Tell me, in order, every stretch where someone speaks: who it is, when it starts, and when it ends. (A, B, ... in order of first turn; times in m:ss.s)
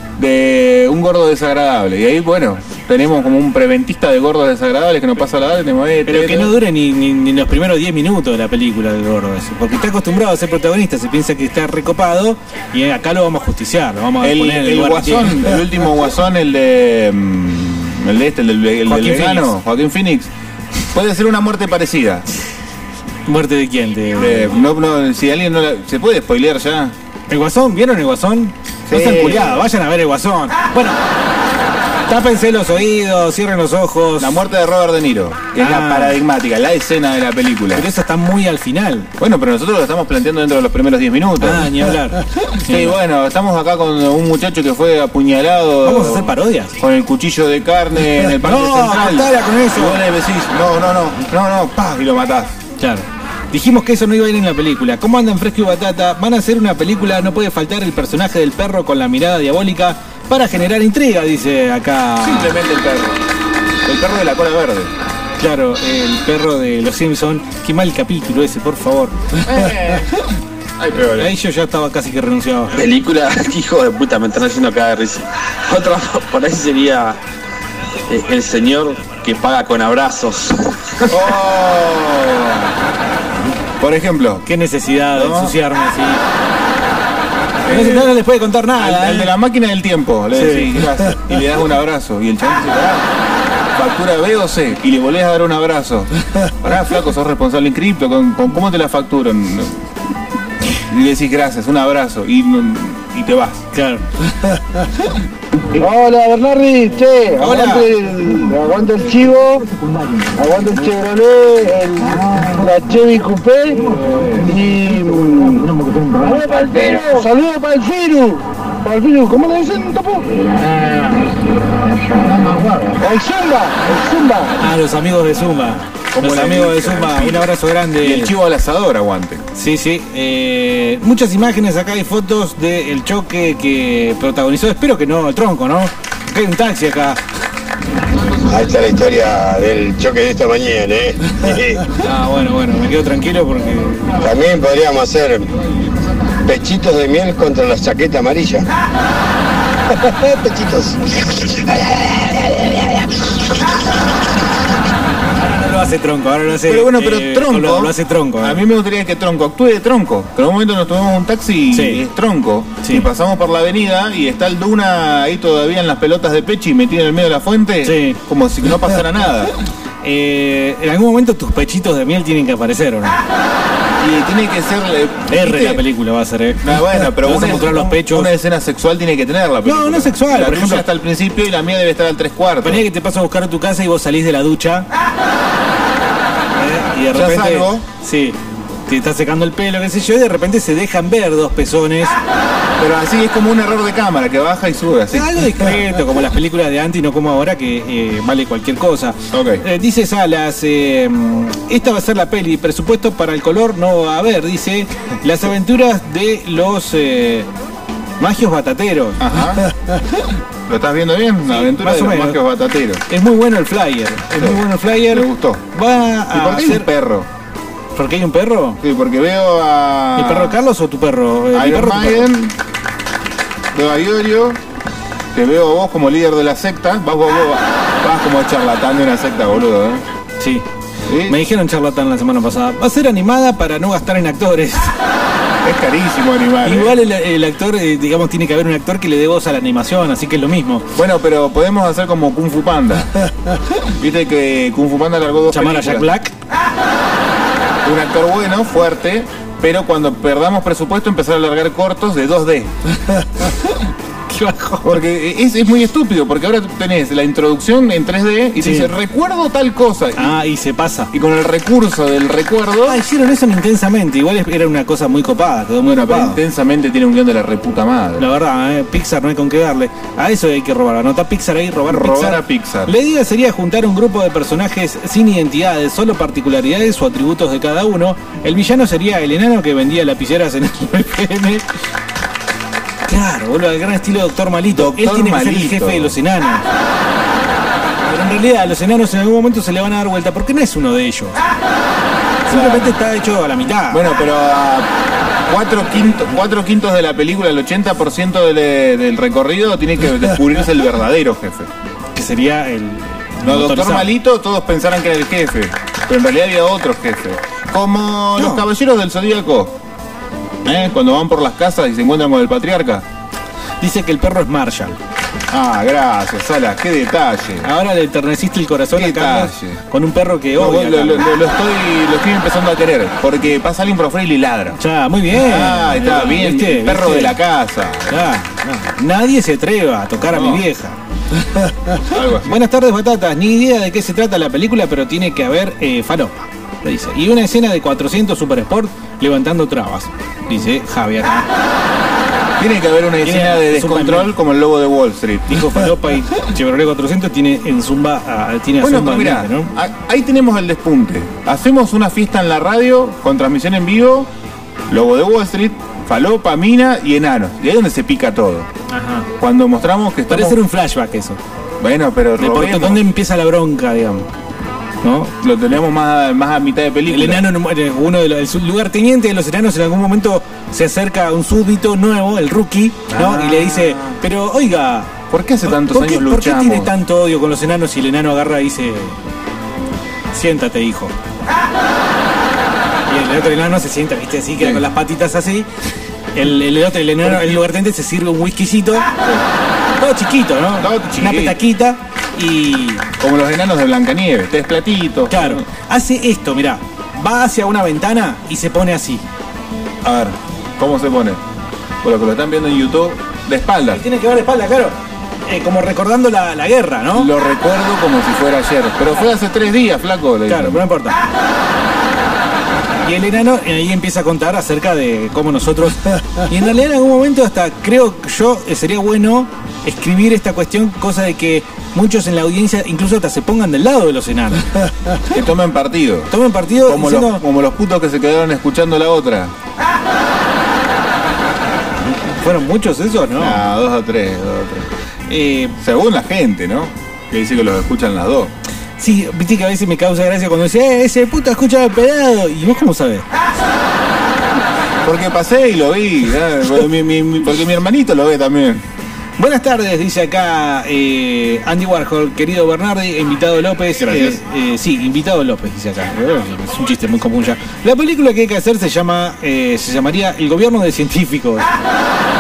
0:00.2-0:06.5 A
0:06.1-0:15.4 B
0:14.2-0:20.3 A
0:18.9-0:19.6 B
0:20.9-0:22.2 A
0:23.3-0:24.6 B
0:24.2-0:27.0 A
0:27.3-0:31.0 B
0:28.9-0:29.7 A
0:32.1-0:34.4 B
0:34.2-0:37.9 A
0:35.6-0:36.2 B
0:37.8-0:39.1 B
0:39.2-0:41.7 A
0:41.4-0:43.0 B
0:42.7-0:52.6 A
0:45.8-0:46.8 B
0:48.4-0:50.0 B
0:52.8-1:02.6 B
1:02.2-1:03.2 A
1:03.8-1:04.9 A
1:05.4-1:09.2 B
1:09.4-1:10.1 A
1:10.8-1:11.3 A
1:11.2-1:12.8 B
1:13.0-1:15.2 C
1:15.7-1:17.1 C
1:18.1-1:20.4 C
1:21.0-1:22.7 A
1:23.8-1:24.4 A
1:24.5-1:26.2 B
1:25.1-1:25.6 A
1:27.6-1:28.1 A
1:27.7-1:29.3 B
1:28.8-1:33.1 A
1:30.4-1:30.7 B
1:33.8-1:39.8 A
1:40.9-1:43.6 A
1:43.7-1:44.0 B
1:45.8-1:49.6 D
1:47.4-1:47.9 B
1:50.4-1:53.8 D
1:54.4-1:55.6 D
1:56.2-2:00.2 D
2:03.0-2:04.1 D
2:04.6-2:08.3 B
2:06.1-2:09.4 A
2:09.6-2:17.2 B
2:18.5-2:21.8 E
2:22.0-2:24.1 B
2:24.2-2:25.5 E
2:26.4-2:28.6 E
2:30.1-2:31.0 E
2:35.4-2:38.6 B
2:36.6-2:49.5 A
2:41.7-2:42.0 B
2:42.8-2:43.1 B
2:47.8-2:48.2 B
2:50.0-2:53.2 B
2:54.0-2:55.8 A
2:55.3-2:58.3 B
2:56.6-3:02.8 A
2:59.6-3:00.8 B
3:02.6-3:04.9 B
3:06.6-3:12.2 B
3:07.1-3:07.8 A
3:12.8-3:15.7 A
3:15.1-3:27.5 B
3:19.3-3:19.6 A
3:28.2-3:29.2 B
3:29.2-3:29.6 A
3:30.7-3:33.0 A
3:31.5-3:32.4 B
3:33.1-3:36.9 B
3:34.4-3:35.6 A
3:36.3-3:37.3 A
3:38.0-3:38.8 B
3:38.8-3:40.6 A
3:40.2-3:42.3 B
3:41.5-3:42.6 A
3:43.7-3:44.6 A
3:45.3-3:50.0 A
3:50.4-3:50.7 B
3:51.1-3:51.4 A
3:51.3-3:55.0 B
3:55.6-3:57.0 A
3:56.6-4:00.9 B
4:01.0-4:03.1 A
4:04.0-4:06.1 A
4:05.5-4:06.3 B
4:07.8-4:12.7 A
4:14.3-4:15.0 B
4:14.8-4:20.4 A
4:18.6-4:18.9 B
4:20.2-4:21.1 B
4:21.1-4:23.0 A
4:22.8-4:26.4 B
4:25.8-4:28.3 A
4:28.2-4:41.6 B
4:31.9-4:32.9 A
4:43.1-4:46.7 B
4:44.7-4:46.2 A
4:48.1-4:51.4 B
4:52.5-4:54.0 B
4:52.5-4:53.0 A
4:53.9-4:54.9 A
4:55.5-5:01.7 A
5:02.2-5:04.1 B
5:03.4-5:09.8 A
5:08.4-5:08.7 B
5:10.6-5:13.0 A
5:13.8-5:15.0 B
5:15.5-5:17.7 A
5:17.6-5:21.3 B
5:19.0-5:19.8 A
5:20.6-5:24.8 A
5:24.8-5:27.4 B
5:25.3-5:28.3 A
5:28.1-5:31.0 B
5:30.2-5:30.7 A
5:32.1-5:32.6 A
5:32.4-5:41.5 B
5:42.6-5:45.6 A
5:43.2-5:44.4 B
5:45.5-5:49.7 B
5:48.8-5:54.3 A
5:54.9-5:58.7 A
5:58.9-5:59.3 B
5:59.4-6:00.6 A
6:00.3-6:01.4 B
6:01.8-6:03.0 A
6:02.4-6:04.3 B
6:05.0-6:05.3 B
6:05.4-6:07.5 A
6:07.1-6:19.2 B
6:13.1-6:14.2 A
6:15.3-6:16.9 A
6:20.3-6:21.1 B
6:23.1-6:25.7 B
6:24.6-6:24.8 A
6:26.4-6:29.1 B
6:27.2-6:27.6 A
6:29.2-6:29.5 A
6:30.0-6:33.0 B
6:30.8-6:31.6 A
6:33.2-6:35.6 A
6:35.3-6:39.2 B
6:40.0-6:41.4 A
6:42.0-6:44.0 A
6:43.9-6:45.0 B
6:45.5-6:47.3 B
6:47.2-6:50.8 A
6:50.5-6:51.2 B
6:53.0-7:04.7 B
7:05.3-7:06.3 A
7:06.3-7:07.4 B
7:06.8-7:09.5 A
7:12.3-7:13.6 B
7:13.4-7:14.9 A
7:15.3-7:15.8 B
7:15.8-7:18.5 A
7:19.0-7:23.2 B
7:25.0-7:28.8 A
7:29.4-7:41.7 B
7:34.0-7:34.4 A